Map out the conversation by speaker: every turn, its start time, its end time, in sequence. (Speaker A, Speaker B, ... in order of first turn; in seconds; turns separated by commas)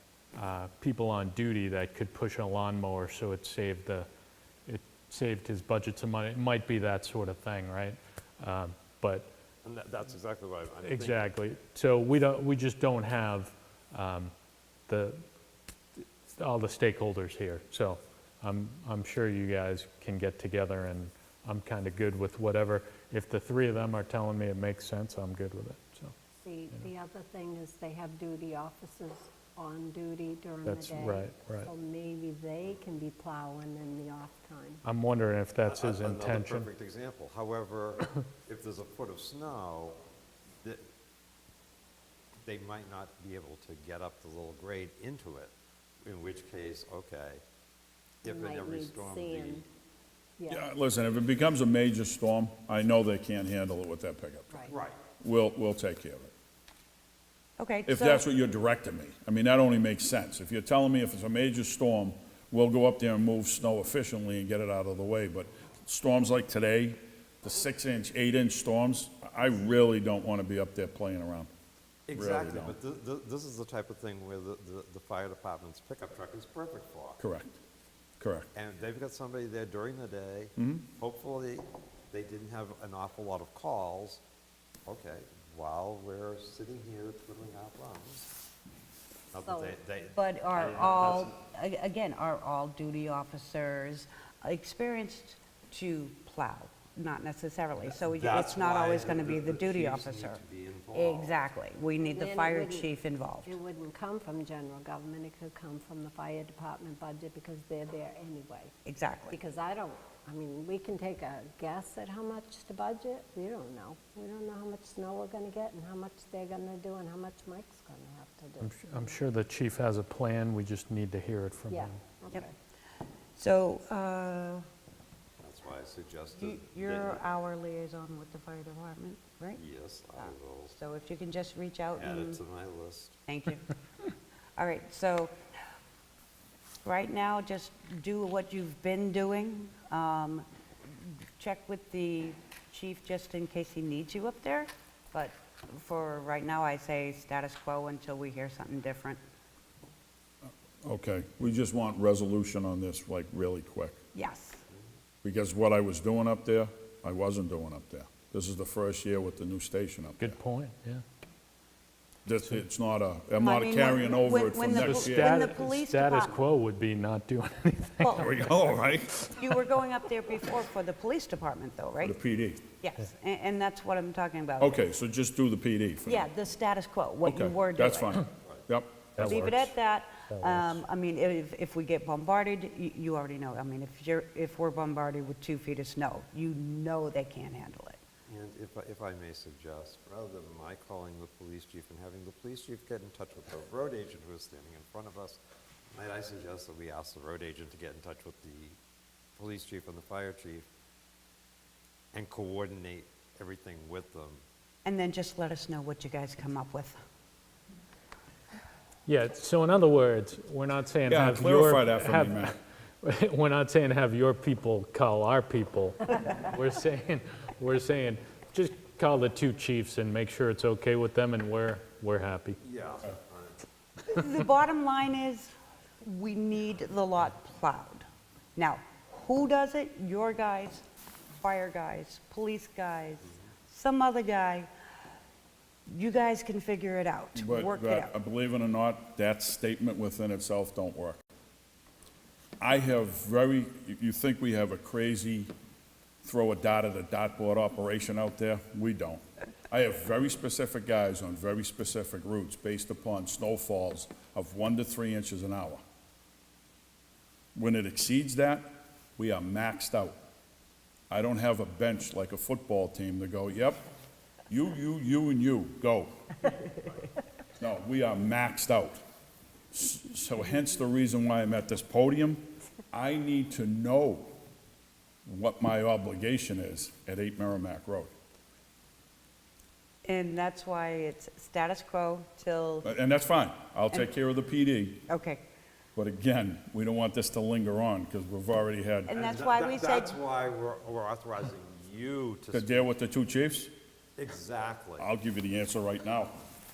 Speaker A: 0.3-4.1, Speaker A: 4.7-9.3, Speaker B: 9.6-11.2, Speaker A: 10.8-14.3, Speaker A: 14.9-15.2, Speaker A: 16.0-26.1, Speaker C: 26.4-34.8, Speaker A: 30.6-31.7, Speaker A: 34.8-36.7, Speaker B: 35.6-40.0, Speaker B: 42.4-45.5, Speaker B: 46.0-47.4, Speaker B: 48.2-49.6, Speaker C: 48.2-49.6, Speaker C: 50.4-50.6, Speaker D: 50.5-54.6, Speaker C: 54.5-54.8, Speaker B: 54.7-55.0, Speaker D: 55.2-56.3, Speaker E: 57.6-58.2, Speaker D: 57.9-71.5, Speaker B: 72.1-77.2, Speaker D: 72.1-72.8, Speaker D: 77.2-77.6, Speaker D: 78.2-78.5, Speaker B: 78.5-84.2, Speaker D: 80.6-80.8, Speaker B: 84.8-88.3, Speaker B: 89.3-91.3, Speaker C: 89.4-89.7, Speaker E: 90.1-100.4, Speaker B: 98.0-101.4, Speaker E: 100.9-103.6, Speaker C: 102.0-102.9, Speaker C: 103.4-108.7, Speaker E: 108.8-109.4, Speaker C: 109.3-119.2, Speaker A: 118.6-122.0, Speaker C: 121.7-122.5, Speaker E: 123.4-124.7, Speaker B: 125.4-127.2, Speaker E: 126.4-129.6, Speaker B: 129.5-130.8, Speaker E: 130.2-132.4, Speaker B: 131.9-133.2, Speaker E: 133.3-133.8, Speaker E: 134.6-135.3, Speaker E: 136.8-149.2, Speaker D: 150.8-154.0, Speaker E: 154.1-154.6, Speaker D: 155.2-160.4, Speaker A: 160.2-161.0, Speaker D: 162.2-165.4, Speaker E: 163.4-166.3, Speaker A: 164.7-168.3, Speaker E: 168.0-168.4, Speaker D: 168.2-169.5, Speaker E: 169.3-172.2, Speaker D: 172.0-172.6, Speaker E: 172.8-174.8, Speaker D: 174.6-176.3, Speaker E: 176.1-178.2, Speaker D: 177.2-179.6, Speaker A: 179.2-179.7, Speaker E: 179.2-188.0, Speaker A: 180.3-180.8, Speaker B: 188.3-195.4, Speaker B: 195.9-198.8, Speaker B: 199.3-200.7, Speaker B: 202.1-204.4, Speaker E: 204.8-207.0, Speaker A: 209.1-222.6, Speaker D: 211.1-212.6, Speaker B: 222.6-223.6, Speaker E: 224.1-230.8, Speaker E: 231.4-234.7, Speaker E: 235.9-238.1, Speaker D: 237.3-241.2, Speaker D: 242.6-245.5, Speaker D: 246.2-255.8, Speaker D: 257.5-260.2, Speaker D: 261.1-263.8, Speaker D: 264.5-266.2, Speaker D: 267.6-269.0, Speaker D: 269.7-274.3, Speaker D: 275.2-278.1, Speaker E: 280.0-282.9, Speaker D: 282.8-285.0, Speaker E: 285.1-285.4, Speaker D: 285.9-289.1, Speaker E: 289.1-290.2, Speaker B: 289.1-292.8, Speaker D: 292.5-293.7, Speaker B: 294.2-295.1, Speaker D: 295.0-296.4